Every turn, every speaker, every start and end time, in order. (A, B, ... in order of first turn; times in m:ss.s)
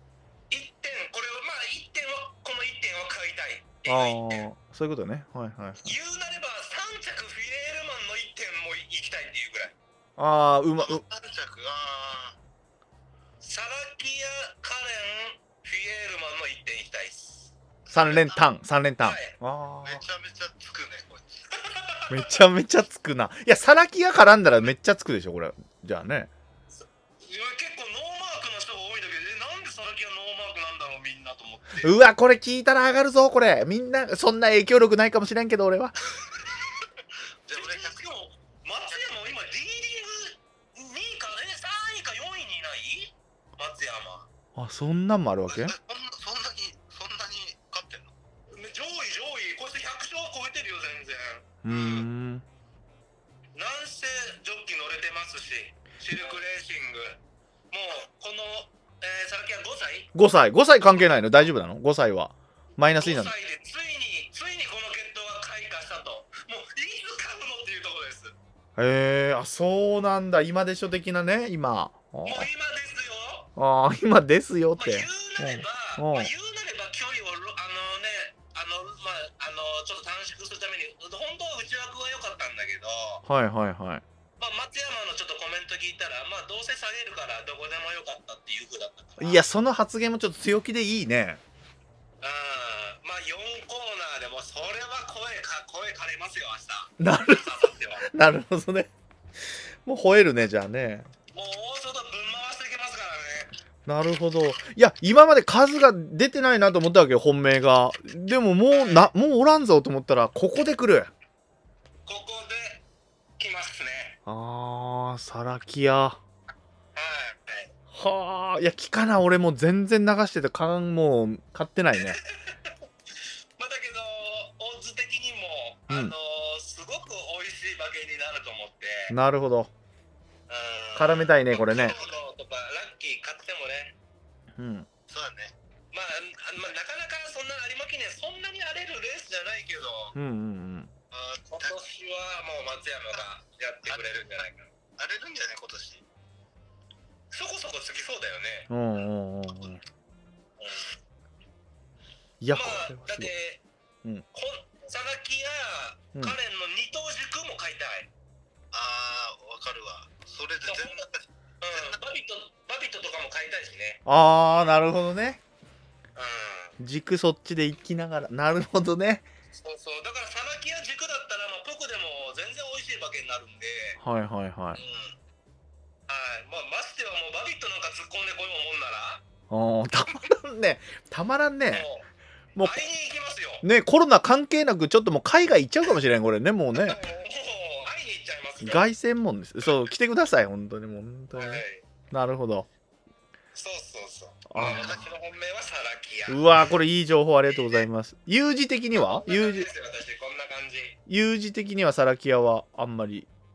0:00.5-0:04.4 A
0:03.8-0:05.9 B
0:05.8-0:09.7 A
0:10.2-0:11.0 B
0:10.8-0:12.4 C
0:13.4-0:17.5 A
0:17.9-0:20.0 B
0:17.9-0:18.4 C
0:19.0-0:19.3 A
0:19.8-0:21.5 C
0:21.6-0:22.2 A
0:22.1-0:26.3 B
0:27.2-0:31.9 A
0:31.8-0:35.9 B
0:37.4-0:38.1 C
0:37.5-0:44.3 A
0:44.5-0:45.7 B
0:45.5-0:48.1 C
0:48.5-0:51.9 A
0:51.6-0:52.4 B
0:53.5-0:57.2 A
0:56.1-0:56.4 C
0:57.7-1:00.1 A
1:00.1-1:03.3 B
1:02.9-1:08.3 A
1:08.8-1:12.5 B
1:12.2-1:13.5 A
1:13.6-1:16.3 B
1:14.8-1:23.2 A
1:23.2-1:24.0 B
1:24.4-1:29.4 A
1:29.2-1:31.4 B
1:32.2-1:38.0 A
1:37.0-1:38.9 B
1:39.8-1:41.1 B
1:41.3-1:43.5 A
1:43.8-1:51.1 B
1:48.7-1:49.1 A
1:52.0-1:52.8 A
1:53.4-1:54.2 A
1:54.2-1:56.2 B
1:56.9-1:57.7 A
1:57.9-2:02.2 B
2:02.0-2:02.8 A
2:03.6-2:09.1 A
2:05.9-2:06.1 B
2:09.1-2:09.7 B
2:10.5-2:13.9 A
2:11.0-2:11.9 B
2:11.7-2:12.2 C
2:14.6-2:14.9 B
2:15.1-2:15.5 C
2:15.9-2:20.2 A
2:20.1-2:20.9 B
2:21.1-2:21.8 C
2:21.5-2:24.7 A
2:25.0-2:26.0 C
2:27.3-2:28.7 A
2:28.7-2:29.8 B
2:30.6-2:30.9 A
2:32.4-2:33.3 B
2:32.5-2:33.6 A
2:34.3-2:38.1 A
2:38.7-2:42.0 C
2:40.7-2:41.0 A
2:41.6-2:44.0 A
2:44.0-2:45.4 B
2:46.2-2:46.7 A
2:46.8-2:49.2 B
2:49.5-2:54.0 A
2:54.0-2:54.8 B
2:54.8-2:55.1 C
2:56.1-2:59.2 A
2:59.5-3:01.9 B
3:01.7-3:02.1 A
3:02.6-3:03.6 A
3:03.6-3:07.0 B
3:06.7-3:08.9 A
3:08.6-3:12.7 B
3:11.3-3:11.8 A
3:13.5-3:16.4 A
3:14.5-3:15.0 B
3:14.6-3:15.1 C
3:16.3-3:19.7 B
3:18.9-3:21.0 A
3:21.1-3:23.3 B